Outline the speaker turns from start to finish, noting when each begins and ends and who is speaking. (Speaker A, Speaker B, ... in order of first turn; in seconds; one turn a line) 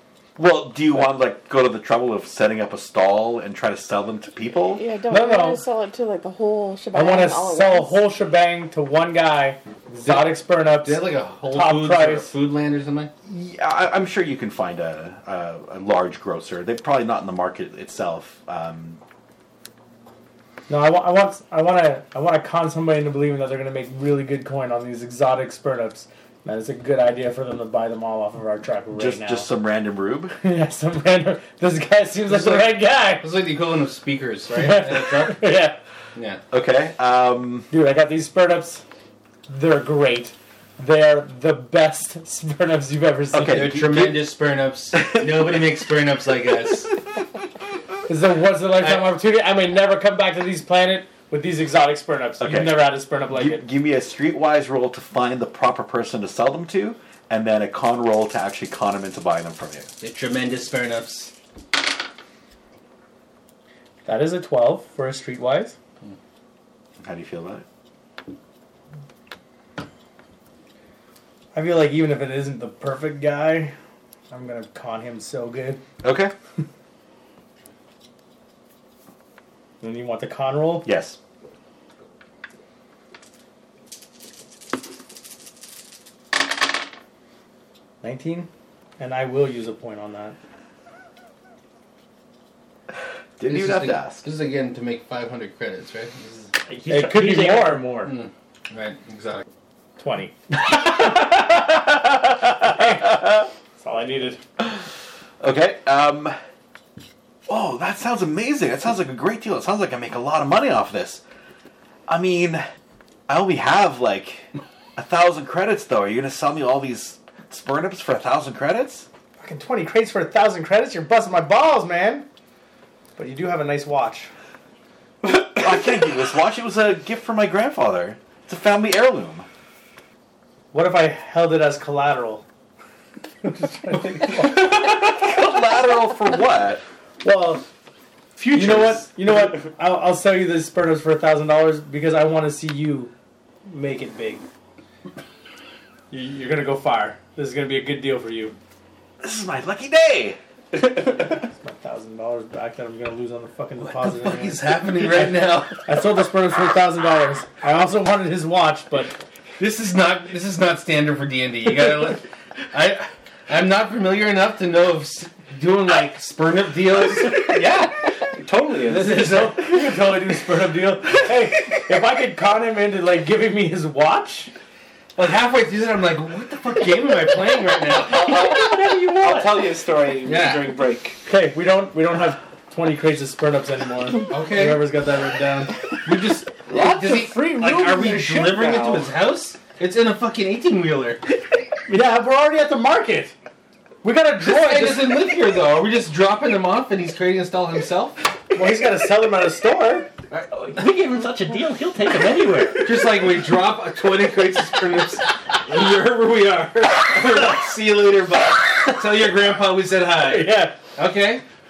Speaker A: 0.3-4.8
Speaker B: 4.6-8.1
Speaker C: 5.1-5.6
Speaker C: 6.9-12.3
Speaker D: 10.0-13.1
Speaker A: 13.3-19.0
Speaker C: 20.7-29.5
Speaker A: 28.9-30.4
Speaker C: 30.4-33.3
Speaker D: 32.3-35.5
Speaker C: 34.5-35.8
Speaker D: 36.1-36.4
Speaker A: 36.5-37.7
Speaker C: 37.7-38.8
Speaker C: 39.5-43.7
Speaker A: 43.3-44.3
Speaker D: 43.5-46.9
Speaker A: 45.0-45.5
Speaker C: 48.1-53.6
Speaker A: 52.4-59.9
Speaker D: 60.0-61.3
Speaker C: 64.0-65.8
Speaker A: 67.0-67.6
Speaker C: 71.5-73.7
Speaker C: 74.3-75.8
Speaker A: 76.0-76.3
Speaker C: 79.8-80.9
Speaker A: 80.8-81.2
Speaker C: 88.0-90.3
Speaker A: 93.4-94.2
Speaker D: 93.5-96.5
Speaker E: 96.7-98.1
Speaker C: 96.9-98.1
Speaker D: 98.1-99.4
Speaker C: 100.0-100.9
Speaker A: 102.6-103.5
Speaker C: 102.7-103.0
Speaker C: 103.8-104.4
Speaker A: 105.4-106.3
Speaker A: 107.5-111.2
Speaker A: 112.1-112.6
Speaker A: 113.3-119.1
Speaker C: 119.4-122.3
Speaker C: 123.2-124.3
Speaker A: 125.5-129.5
Speaker C: 130.7-132.4
Speaker C: 133.4-134.9
Speaker A: 134.4-136.8
Speaker C: 137.2-137.6
Speaker C: 138.4-143.1
Speaker C: 143.7-144.4
Speaker C: 146.1-148.6
Speaker A: 149.2-150.4
Speaker C: 151.3-159.2
Speaker D: 153.8-155.8
Speaker D: 159.6-167.6
Speaker F: 167.4-169.6
Speaker C: 168.9-174.5
Speaker D: 168.9-169.2
Speaker D: 175.2-178.4
Speaker F: 178.1-181.2
Speaker C: 178.2-179.5
Speaker D: 180.2-180.7
Speaker C: 181.2-185.7
Speaker D: 184.3-184.8
Speaker D: 186.0-191.2
Speaker F: 186.7-189.1
Speaker C: 191.9-193.3
Speaker C: 194.0-195.3
Speaker D: 194.4-198.2
Speaker C: 198.5-200.1
Speaker E: 200.5-202.9
Speaker C: 202.1-202.8
Speaker D: 202.8-211.4
Speaker C: 210.2-210.8